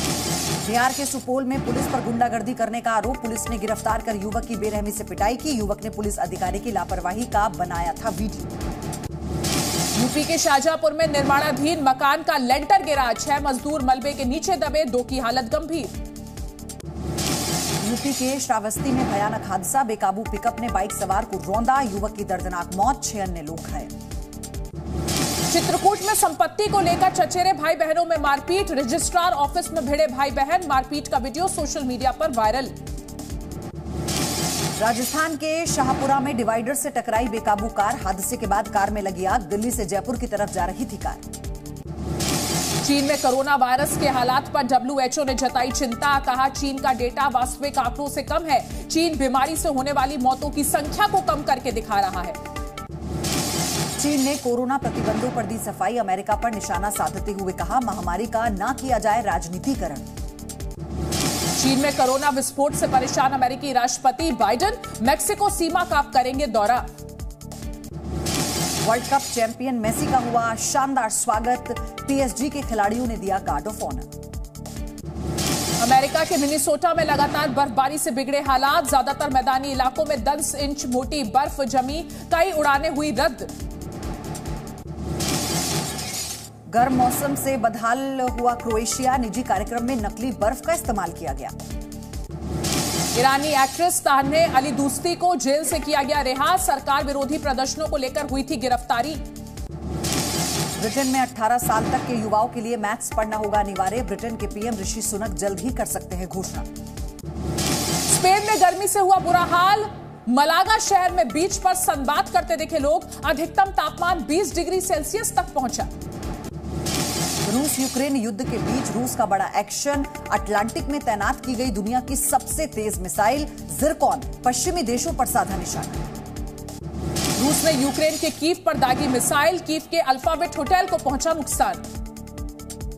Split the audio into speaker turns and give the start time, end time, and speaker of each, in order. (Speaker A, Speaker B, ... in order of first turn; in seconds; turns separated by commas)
Speaker A: 0.6-8.5, Speaker B: 9.9-15.9, Speaker A: 17.8-23.9, Speaker B: 25.5-32.7, Speaker A: 34.8-41.2, Speaker B: 42.8-52.4, Speaker A: 54.0-60.1, Speaker B: 61.5-66.9, Speaker A: 68.8-74.1, Speaker B: 75.8-83.5, Speaker A: 86.7-91.5, Speaker B: 93.1-99.2, Speaker A: 100.8-106.7, Speaker B: 108.1-115.9, Speaker A: 117.4-126.0, Speaker B: 127.4-131.8